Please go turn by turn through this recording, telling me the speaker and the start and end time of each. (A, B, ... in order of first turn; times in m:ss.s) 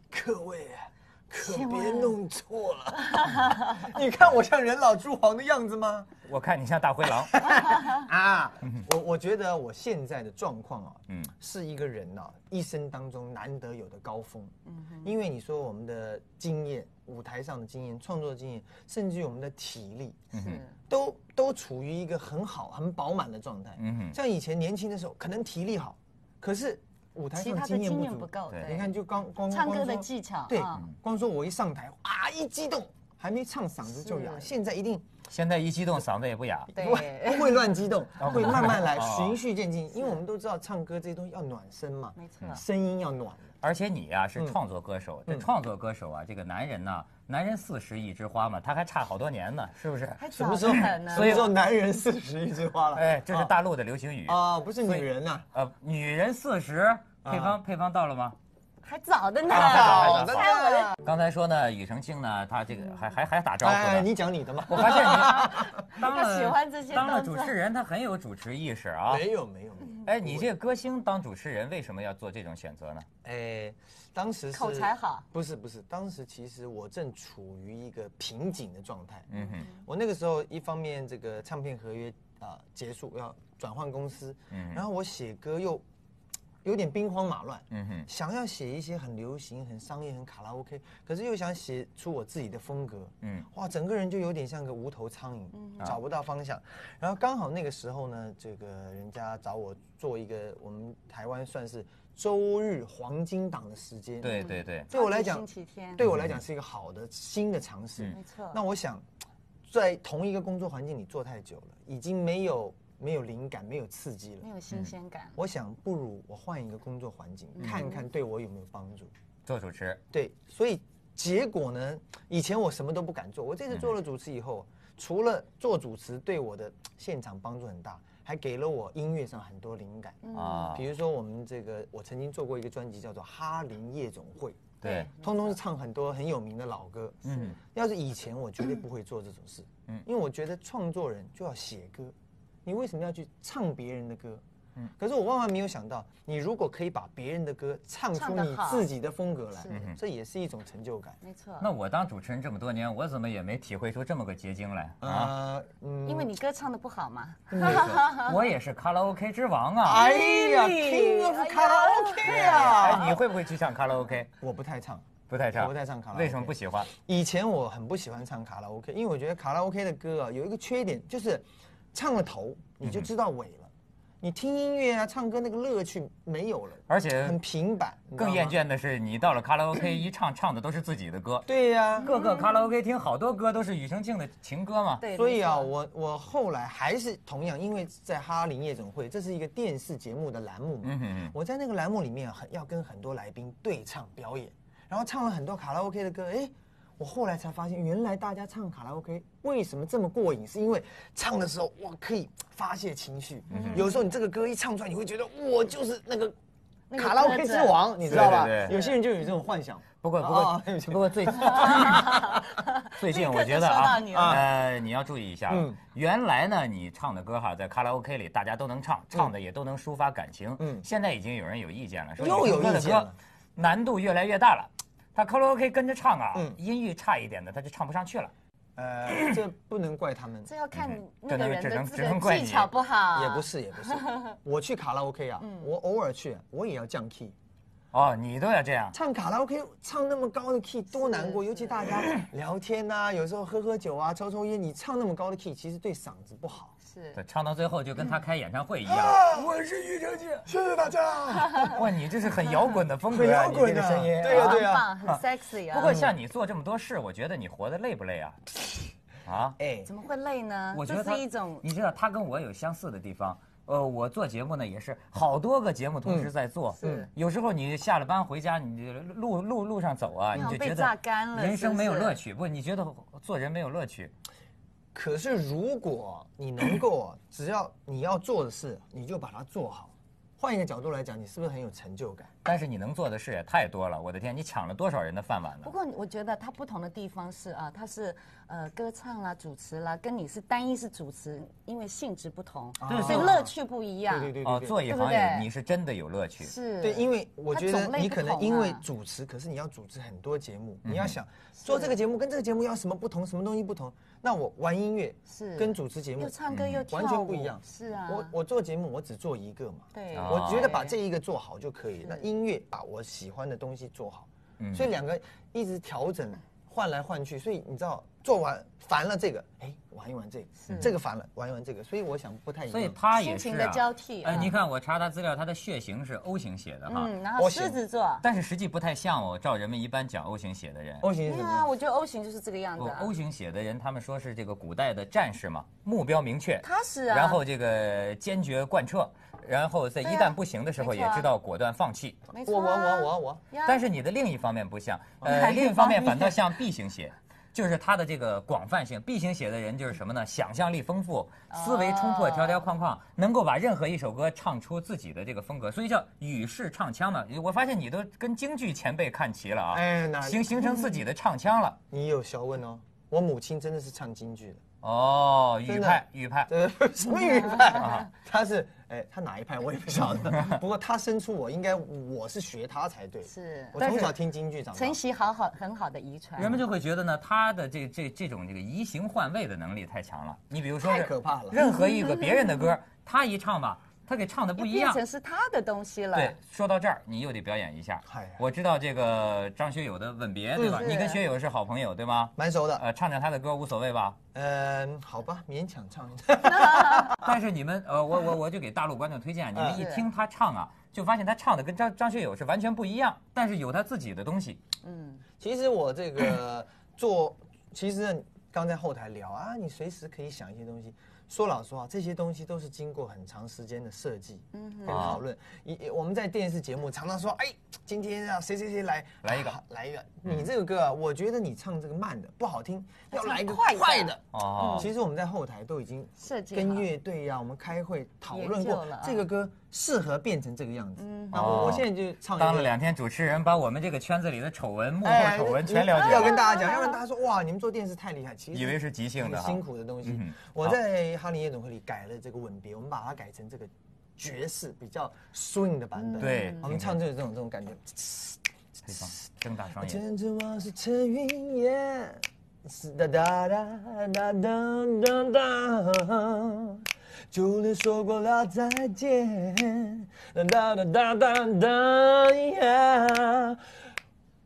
0:00.1-0:06.1 A
0:01.4-0:02.2 B
0:03.0-0:03.9 B
0:06.2-0:07.7 C
0:07.2-0:20.3 A
0:14.7-0:15.1 B
0:20.3-0:20.6 C
0:20.3-0:20.8 B
0:20.9-0:35.1 A
0:23.8-0:24.2 C
0:27.3-0:28.9 B
0:29.5-0:30.8 B
0:33.9-0:34.5 B
0:35.3-0:36.7 C
0:36.7-0:43.5 A
0:36.7-0:37.8 B
0:38.2-0:39.4 C
0:42.2-0:42.6 B
0:43.6-0:51.5 C
0:50.2-0:51.5 B
0:50.3-0:53.5 A
0:52.9-0:58.4 C
0:54.2-0:55.5 A
0:57.2-0:57.6 A
0:58.8-1:01.0 B
0:59.5-1:01.0 A
0:59.5-1:00.5 C
1:01.0-1:04.1 C
1:03.6-1:05.8 A
1:04.7-1:09.2 C
1:05.9-1:07.6 B
1:09.1-1:10.5 A
1:10.0-1:13.1 C
1:13.2-1:25.8 A
1:14.5-1:15.2 B
1:19.3-1:19.7 C
1:24.5-1:24.8 C
1:26.6-1:49.0 A
1:27.7-1:28.1 C
1:33.2-1:33.5 C
1:35.6-1:35.9 B
1:44.2-1:44.9 C
1:44.3-1:46.0 B
1:46.0-1:46.4 C
1:48.1-1:48.6 B
1:49.7-1:54.5 A
1:54.4-1:55.4 B
1:55.4-1:59.1 A
1:57.6-1:58.0 B
1:59.4-2:00.0 C
2:00.1-2:24.4 A
2:10.2-2:10.8 B
2:10.3-2:10.8 C
2:14.8-2:15.1 C
2:14.8-2:15.5 B
2:17.2-2:17.6 C
2:25.0-2:31.2 A
2:28.2-2:28.9 B
2:29.6-2:29.9 B
2:29.7-2:30.0 C
2:31.2-2:31.7 B
2:31.6-2:35.3 C
2:35.0-2:36.3 A
2:36.0-2:38.3 B
2:37.5-2:38.0 A
2:37.6-2:40.0 C
2:39.8-2:43.2 A
2:39.9-2:43.1 B
2:42.2-2:44.3 C
2:44.4-2:58.6 A
2:45.3-2:46.9 C
2:56.9-2:57.4 C
2:58.2-3:01.5 C
3:01.5-3:02.2 A
3:02.0-3:05.0 C
3:02.1-3:02.5 B
3:05.0-3:05.7 B
3:05.1-3:26.3 A
3:10.8-3:11.3 C
3:23.5-3:23.8 C
3:23.5-3:24.0 B
3:26.9-3:29.0 B
3:27.0-3:32.4 A
3:28.1-3:28.7 C
3:30.0-3:32.3 C
3:31.4-3:34.4 B
3:32.9-3:48.3 C
3:34.1-3:34.5 A
3:35.5-3:35.8 A
3:40.6-3:40.8 A
3:42.2-3:43.2 A
3:46.3-3:46.6 A
3:48.8-3:50.5 A
3:49.1-3:49.4 C
3:50.4-3:54.4 B
3:50.7-3:52.7 C
3:53.1-3:57.3 A
3:55.4-3:55.7 B
3:57.9-3:59.0 C
3:58.9-4:06.7 A
4:00.9-4:02.0 B
4:06.8-4:07.2 B
4:07.2-4:09.4 C
4:08.8-4:11.8 A
4:11.4-4:11.8 B
4:11.7-4:14.7 C
4:13.1-4:15.2 A
4:14.2-4:16.0 B
4:15.7-4:18.4 C
4:15.8-4:16.1 A
4:19.2-4:19.6 C
4:19.6-4:19.9 A
4:19.8-4:21.6 B
4:20.7-4:34.1 C
4:26.0-4:27.1 A
4:26.8-4:27.1 B
4:30.3-4:32.2 B
4:34.9-4:42.3 A
4:42.4-4:45.7 C
4:45.6-4:55.5 B
4:52.8-4:53.5 A
4:52.8-4:53.4 C
4:54.1-4:54.8 A
4:54.4-4:56.5 C
4:56.4-4:58.8 B
4:56.8-5:23.0 A
5:00.8-5:01.2 C
5:01.6-5:02.0 B
5:05.3-5:08.3 B
5:06.5-5:06.8 C
5:09.9-5:11.0 B
5:10.1-5:10.7 C
5:14.6-5:14.9 C
5:20.6-5:20.9 B
5:20.7-5:20.9 C
5:22.7-5:27.1 C
5:23.1-5:24.5 B
5:26.9-5:28.2 B
5:27.4-5:27.8 A
5:28.2-5:31.1 C
5:31.0-5:31.7 A
5:31.2-5:33.1 B
5:32.8-5:42.2 C
5:36.6-5:37.4 B
5:40.0-5:41.3 B
5:42.3-5:43.9 B
5:42.4-5:43.4 A
5:43.6-6:01.8 C
5:45.2-5:45.5 A
5:45.2-5:46.4 B
5:51.5-5:52.6 B
5:59.7-6:00.7 A
6:01.9-6:04.6 A
6:04.8-6:06.5 C
6:05.7-6:15.0 A
6:07.2-6:07.9 B
6:07.7-6:08.1 C
6:13.2-6:14.1 B
6:14.7-6:16.6 B
6:16.4-6:25.0 C
6:20.8-6:21.6 A
6:21.6-6:22.6 B
6:24.6-6:26.4 B
6:26.1-6:34.2 C
6:28.1-6:28.4 A
6:30.6-6:30.9 A
6:30.6-6:31.2 B
6:32.4-6:32.8 A
6:34.3-6:37.3 A
6:36.5-6:37.1 B
6:37.1-6:44.6 C
6:39.5-6:39.8 A
6:39.7-6:40.1 B
6:44.8-6:45.2 B
6:45.4-7:12.7 A
6:54.5-6:55.2 B
6:54.9-6:55.2 C
6:59.2-6:59.6 C
7:03.1-7:04.9 B
7:04.3-7:04.9 C
7:06.2-7:06.9 B
7:08.3-7:09.2 B
7:11.0-7:11.8 B
7:11.3-7:16.4 C
7:15.0-7:29.1 A
7:15.9-7:17.0 B
7:18.5-7:20.8 C
7:26.0-7:26.7 B
7:26.2-7:27.0 C
7:28.9-7:30.0 C
7:29.7-7:43.6 A